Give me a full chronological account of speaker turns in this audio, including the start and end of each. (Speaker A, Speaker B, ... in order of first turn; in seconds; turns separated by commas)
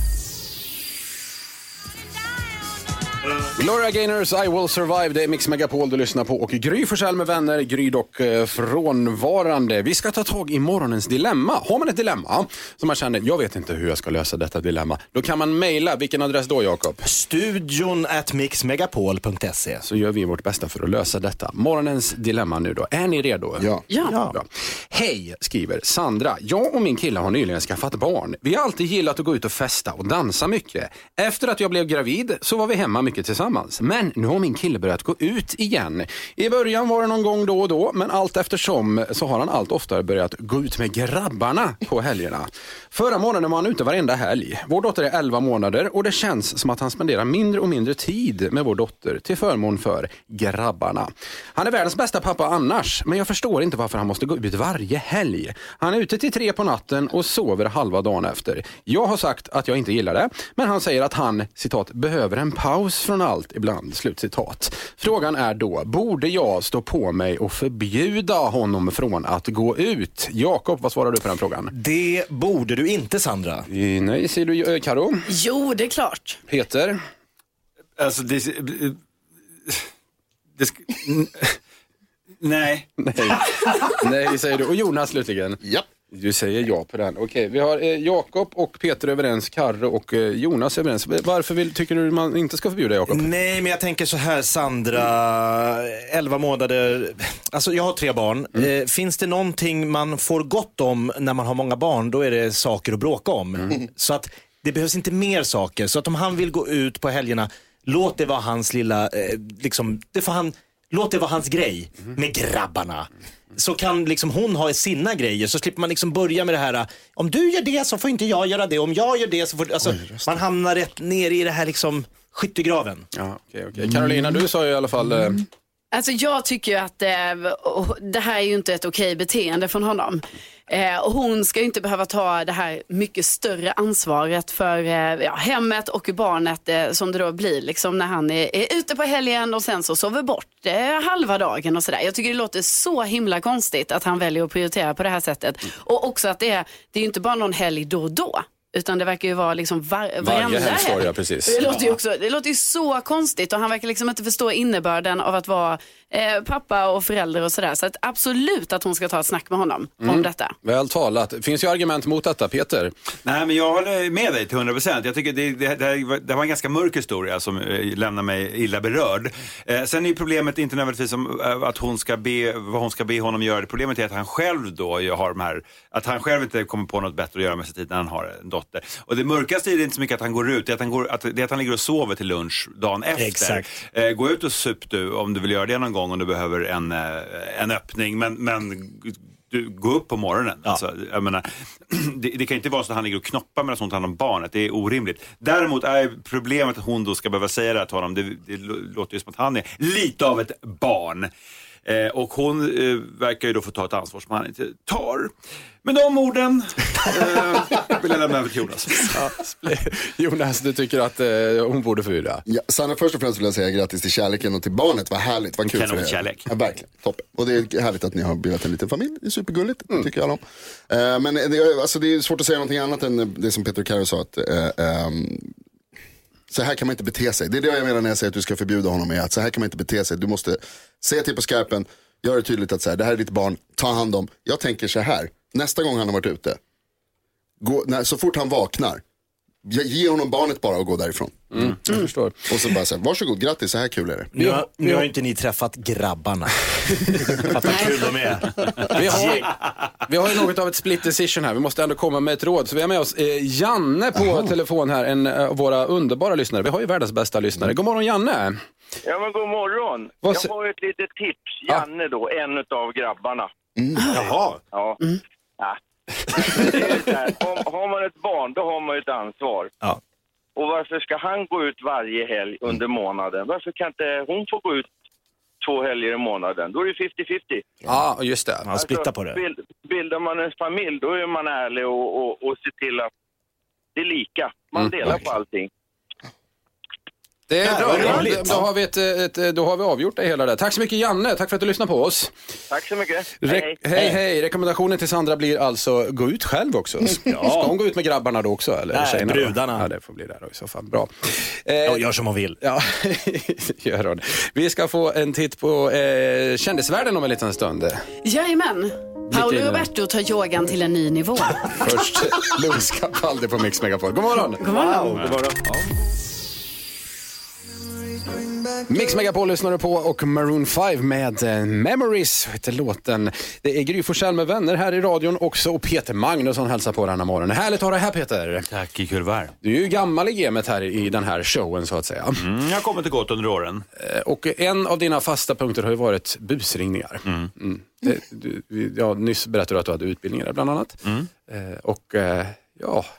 Speaker A: 3.5-17.0, Speaker B: 17.0-19.8, Speaker A: 19.8-23.7, Speaker C: 23.6-23.8, Speaker B: 24.1-24.4, Speaker A: 24.3-71.7, Speaker B: 71.7-73.7, Speaker A: 73.7-75.2, Speaker D: 75.3-76.4, Speaker A: 76.5-77.0, Speaker E: 78.0-79.0, Speaker E: 80.6-81.6, Speaker E: 82.4-82.9, Speaker A: 83.0-93.2, Speaker B: 93.1-123.1, Speaker C: 120.0-120.4, Speaker A: 123.1-125.4, Speaker D: 125.9-160.5, Speaker A: 150.2-151.8, Speaker A: 160.0-162.9, Speaker E: 163.2-201.3, Speaker B: 183.2-183.7, Speaker E: 201.8-205.3, Speaker E: 205.8-209.2, Speaker A: 209.1-212.4, Speaker C: 212.4-225.5, Speaker E: 215.6-216.5, Speaker C: 226.5-236.6, Speaker C: 237.6-239.0, Speaker C: 239.6-241.7, Speaker A: 241.5-242.5, Speaker C: 242.5-244.3, Speaker B: 244.3-249.6, Speaker A: 244.4-245.1, Speaker A: 248.9-249.5, Speaker A: 250.1-258.6, Speaker F: 259.0-263.5, Speaker A: 260.2-260.5, Speaker B: 264.1-264.6, Speaker F: 264.7-265.0, Speaker F: 266.3-269.7, Speaker F: 270.6-274.9, Speaker F: 275.6-277.7, Speaker A: 277.8-278.7, Speaker B: 278.6-279.4, Speaker F: 278.8-283.1, Speaker F: 283.9-285.7, Speaker A: 284.8-285.2, Speaker A: 287.5-292.3, Speaker B: 287.6-288.7, Speaker F: 292.7-293.8, Speaker A: 293.4-302.0, Speaker B: 297.2-297.8, Speaker B: 298.9-299.9, Speaker B: 301.9-302.6, Speaker A: 302.6-308.0, Speaker D: 308.2-311.7, Speaker A: 309.3-309.9, Speaker A: 311.8-314.6, Speaker D: 314.6-315.1, Speaker B: 314.6-315.9, Speaker A: 318.9-328.7, Speaker E: 328.7-329.5, Speaker A: 329.6-332.4, Speaker E: 332.4-333.8, Speaker A: 334.0-343.1, Speaker E: 337.2-337.5